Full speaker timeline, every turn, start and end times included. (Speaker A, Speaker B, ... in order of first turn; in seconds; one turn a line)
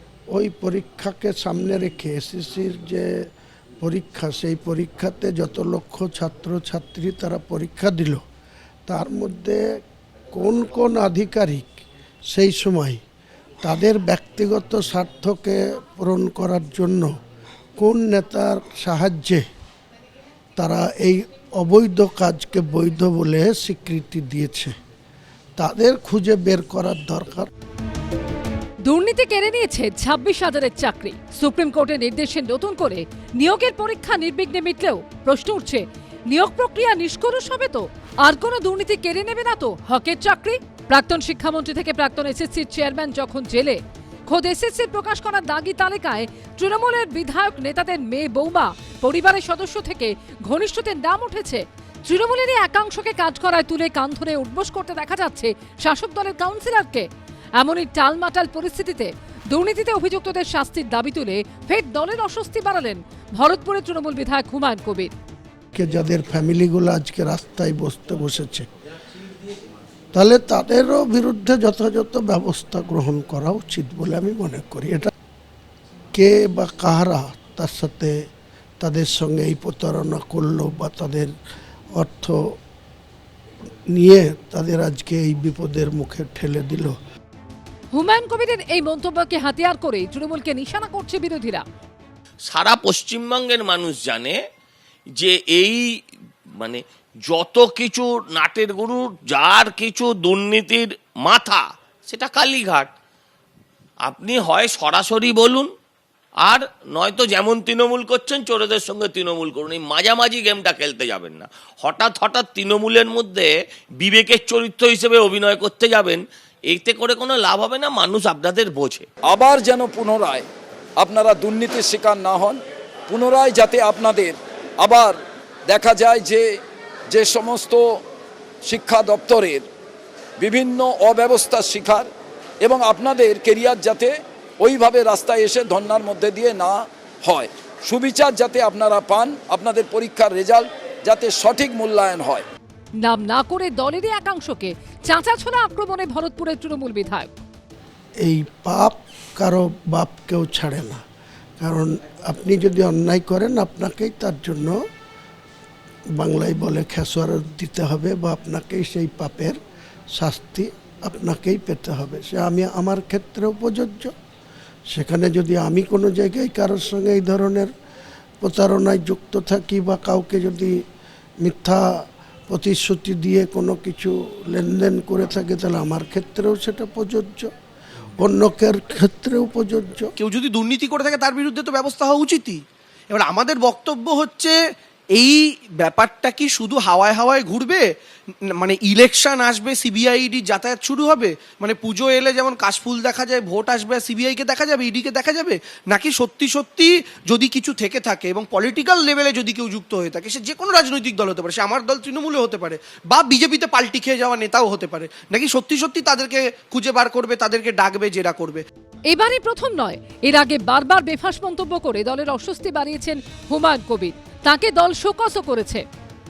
Speaker A: 0.3-3.1
Speaker A: 3.8-8.2
Speaker A: 8.9-9.6
Speaker A: 10.3-11.8
Speaker A: 12.3-13.0
Speaker A: 13.6-17.1
Speaker A: 17.8-19.4
Speaker A: 20.6-24.7
Speaker A: 25.6-27.5
Speaker B: 28.9-57.1
Speaker B: 57.6-65.1
Speaker A: 65.7-68.7
Speaker A: 70.1-75.1
Speaker A: 76.1-78.1
Speaker A: 78.8-81.3
Speaker A: 81.9-82.5
Speaker A: 83.9-87.0
Speaker B: 87.9-91.6
Speaker C: 92.5-94.4
Speaker C: 95.2-95.8
Speaker C: 96.6-102.9
Speaker C: 104.0-105.7
Speaker C: 106.4-113.5
Speaker C: 114.0-119.0
Speaker D: 119.3-120.5
Speaker D: 121.0-125.2
Speaker D: 125.7-126.6
Speaker D: 127.1-128.0
Speaker D: 128.6-129.7
Speaker D: 130.4-132.1
Speaker D: 132.6-142.4
Speaker B: 143.0-147.3
Speaker A: 148.2-151.0
Speaker A: 151.6-154.8
Speaker A: 156.2-159.6
Speaker A: 160.1-164.1
Speaker A: 164.9-167.7
Speaker A: 168.4-170.8
Speaker A: 171.4-171.8
Speaker A: 172.5-177.5
Speaker A: 178.2-180.1
Speaker E: 180.2-184.6
Speaker E: 185.2-187.8
Speaker E: 188.6-208.6
Speaker B: 209.1-215.8